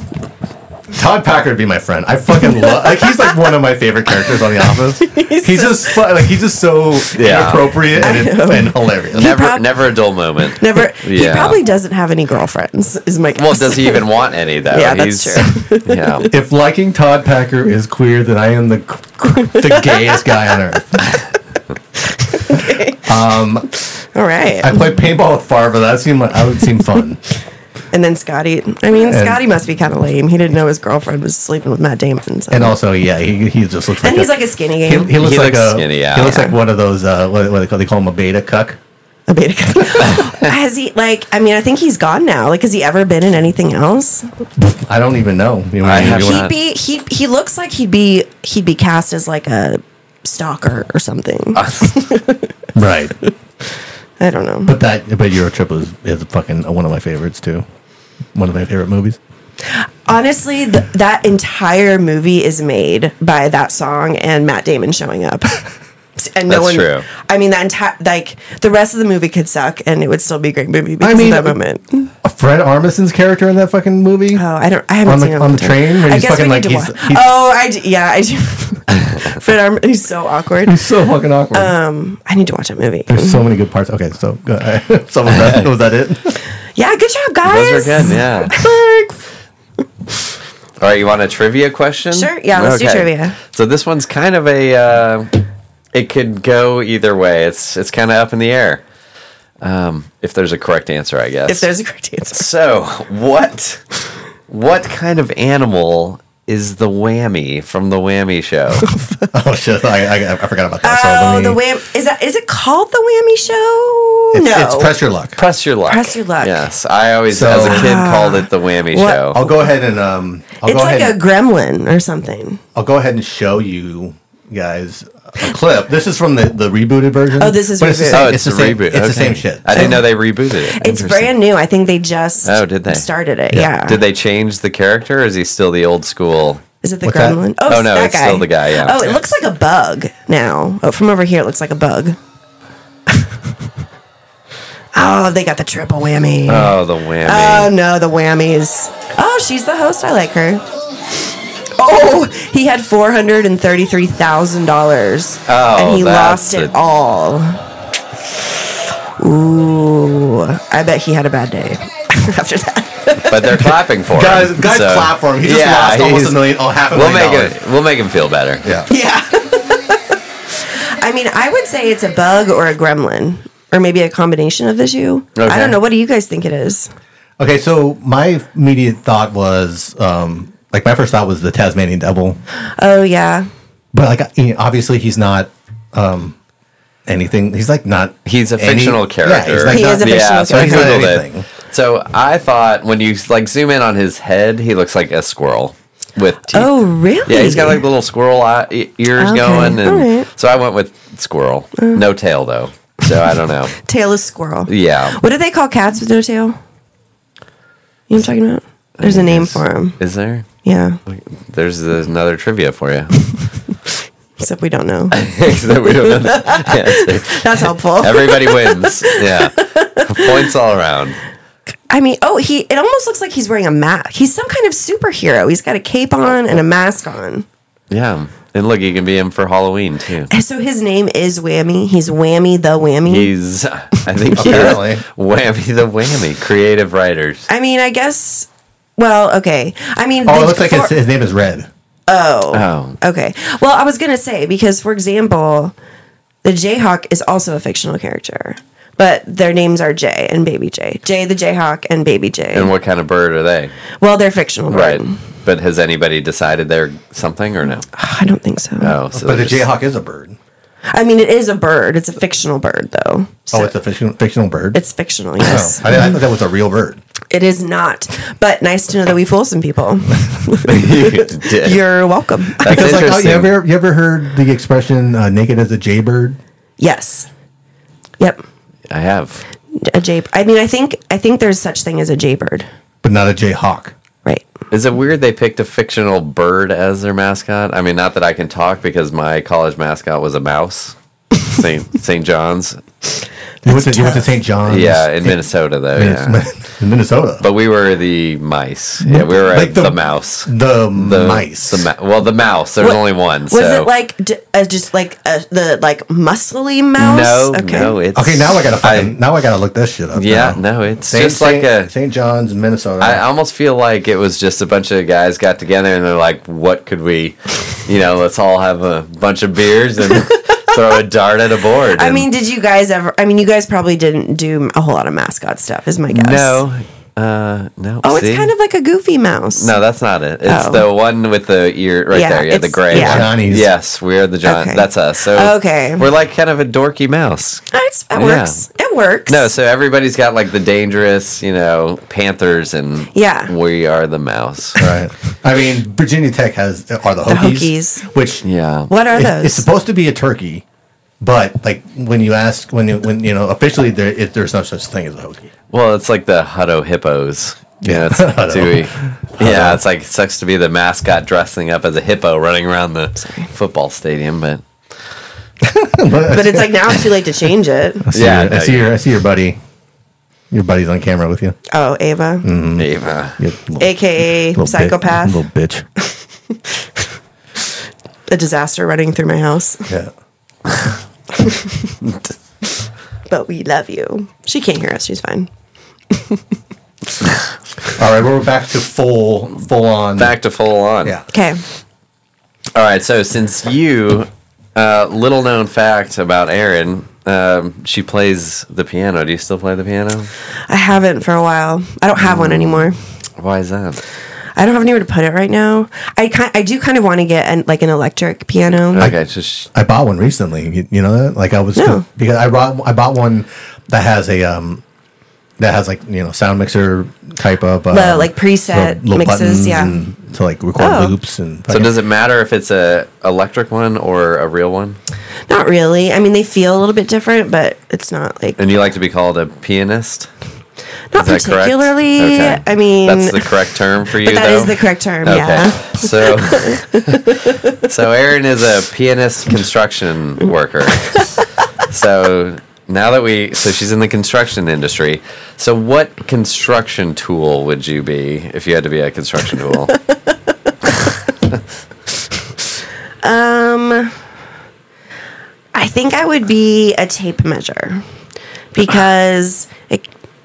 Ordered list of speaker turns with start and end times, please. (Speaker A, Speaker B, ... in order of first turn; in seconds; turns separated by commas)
Speaker A: 0.9-9.3, Speaker B: 2.6-3.1, Speaker B: 5.0-6.1, Speaker C: 7.2-7.8, Speaker B: 7.9-9.8, Speaker C: 9.1-11.6, Speaker B: 10.4-14.2, Speaker C: 13.3-16.3, Speaker B: 14.7-16.3, Speaker A: 16.3-21.1, Speaker B: 19.5-20.2, Speaker B: 22.1-23.1, Speaker A: 23.0-23.7, Speaker B: 23.9-24.9, Speaker A: 24.6-27.2, Speaker B: 27.9-32.8, Speaker A: 29.0-29.4, Speaker A: 32.5-38.8, Speaker B: 34.0-35.2, Speaker C: 35.1-36.4, Speaker B: 36.2-36.5, Speaker B: 39.3-44.3, Speaker A: 44.6-46.5, Speaker C: 45.8-46.5, Speaker B: 46.0-52.6, Speaker C: 51.5-51.9, Speaker A: 52.7-53.1, Speaker B: 54.2-54.8, Speaker A: 54.6-57.6, Speaker A: 58.3-59.2, Speaker B: 59.7-65.6, Speaker B: 66.2-72.1, Speaker C: 66.5-67.1, Speaker A: 71.0-71.6, Speaker A: 72.2-74.4, Speaker B: 74.3-80.8, Speaker A: 75.0-77.3, Speaker A: 80.7-81.7, Speaker B: 81.5-83.4, Speaker A: 83.1-86.3, Speaker C: 85.3-85.6, Speaker B: 86.8-89.2, Speaker C: 87.4-88.6, Speaker C: 90.8-95.3, Speaker B: 92.1-93.3, Speaker C: 95.9-98.8, Speaker C: 99.6-101.7, Speaker B: 101.5-102.5, Speaker C: 102.3-103.8, Speaker C: 104.5-108.9, Speaker B: 108.8-109.2, Speaker A: 109.3-111.6, Speaker B: 110.8-114.9, Speaker A: 114.3-115.4, Speaker C: 115.4-119.4, Speaker B: 115.8-116.7, Speaker A: 117.3-117.9, Speaker B: 117.6-119.5, Speaker A: 119.3-121.2, Speaker B: 120.6-122.6, Speaker A: 122.7-130.0, Speaker B: 127.4-128.4, Speaker C: 128.1-131.3, Speaker B: 129.7-130.1, Speaker B: 130.6-134.0, Speaker C: 132.4-133.1, Speaker C: 133.8-136.6, Speaker B: 136.8-142.2, Speaker A: 137.0-137.4, Speaker C: 137.7-139.1, Speaker B: 144.9-150.6, Speaker C: 146.5-147.7, Speaker B: 151.8-157.7, Speaker C: 155.5-156.7, Speaker B: 159.2-163.7, Speaker C: 163.3-168.6, Speaker A: 164.1-167.6, Speaker A: 168.6-168.9, Speaker B: 168.9-170.0, Speaker B: 171.0-176.9, Speaker C: 175.3-175.8, Speaker A: 177.4-182.4, Speaker B: 182.8-183.5, Speaker A: 183.9-186.3, Speaker A: 187.1-191.5, Speaker C: 188.2-203.7, Speaker B: 189.7-191.1, Speaker B: 196.5-197.8, Speaker B: 199.2-200.3, Speaker B: 201.8-202.0, Speaker B: 203.8-206.6, Speaker C: 204.7-205.2, Speaker B: 208.1-210.0, Speaker C: 209.0-210.5, Speaker B: 210.6-211.0, Speaker C: 211.1-213.1, Speaker B: 214.4-220.4, Speaker C: 215.1-221.2, Speaker B: 221.9-227.4, Speaker C: 227.9-230.3, Speaker B: 230.3-233.3, Speaker C: 233.1-237.5, Speaker B: 233.9-234.7, Speaker A: 234.3-235.0, Speaker B: 237.5-240.9, Speaker A: 240.2-241.7, Speaker B: 242.1-245.7, Speaker C: 242.5-243.0, Speaker B: 246.4-252.7, Speaker C: 252.5-253.7, Speaker B: 254.0-255.2, Speaker C: 254.7-257.9, Speaker B: 257.9-258.9, Speaker C: 258.8-259.7, Speaker A: 259.1-260.4, Speaker B: 260.9-263.7, Speaker A: 263.5-264.8, Speaker B: 264.7-266.1, Speaker A: 265.4-267.0, Speaker B: 267.3-273.1, Speaker C: 270.6-271.8, Speaker C: 272.6-273.6, Speaker A: 272.6-276.4, Speaker B: 276.8-277.3, Speaker C: 278.9-279.4, Speaker B: 279.7-282.7, Speaker A: 283.0-283.9, Speaker C: 284.7-292.8, Speaker B: 293.6-294.3, Speaker A: 293.6-295.4, Speaker C: 294.6-296.4, Speaker A: 295.9-297.4, Speaker C: 297.4-303.9, Speaker A: 299.0-301.9, Speaker B: 302.8-307.9, Speaker C: 307.0-309.1, Speaker A: 308.1-313.2, Speaker C: 310.1-311.9, Speaker C: 313.0-322.2, Speaker B: 321.9-326.6, Speaker C: 326.1-328.5, Speaker B: 328.0-329.7, Speaker C: 329.6-338.6, Speaker B: 330.4-330.9, Speaker B: 332.1-333.3, Speaker A: 332.9-333.7, Speaker B: 334.4-336.0, Speaker B: 337.7-339.5, Speaker C: 339.3-344.8, Speaker B: 343.1-343.5, Speaker A: 344.8-348.4, Speaker B: 347.3-348.1, Speaker C: 348.4-348.9, Speaker B: 348.9-349.7, Speaker A: 349.1-350.6, Speaker A: 351.2-355.5, Speaker C: 355.7-364.6, Speaker A: 357.8-359.8, Speaker B: 363.2-363.5, Speaker A: 365.7-366.9, Speaker B: 366.2-368.1, Speaker A: 368.1-369.6, Speaker C: 368.1-368.9, Speaker A: 370.5-371.6, Speaker B: 371.7-372.5, Speaker A: 372.4-375.9, Speaker C: 372.8-373.4, Speaker B: 373.8-375.4, Speaker B: 378.3-379.9, Speaker B: 381.3-382.0, Speaker B: 383.3-385.5, Speaker B: 386.1-386.4, Speaker A: 387.9-390.3, Speaker C: 390.2-391.2, Speaker B: 391.3-391.6, Speaker C: 392.7-400.3, Speaker B: 400.7-403.0, Speaker C: 402.2-404.0, Speaker B: 404.6-409.1, Speaker C: 408.9-409.7, Speaker A: 409.7-414.8, Speaker B: 411.8-412.0, Speaker A: 415.6-421.9, Speaker B: 417.9-420.0, Speaker B: 420.8-421.1, Speaker C: 421.7-425.0, Speaker B: 425.5-428.6, Speaker C: 428.6-430.3, Speaker B: 431.1-433.5, Speaker C: 431.1-450.0, Speaker B: 434.2-437.8, Speaker C: 451.0-451.6, Speaker B: 453.2-454.1, Speaker B: 455.7-458.0, Speaker B: 458.7-460.1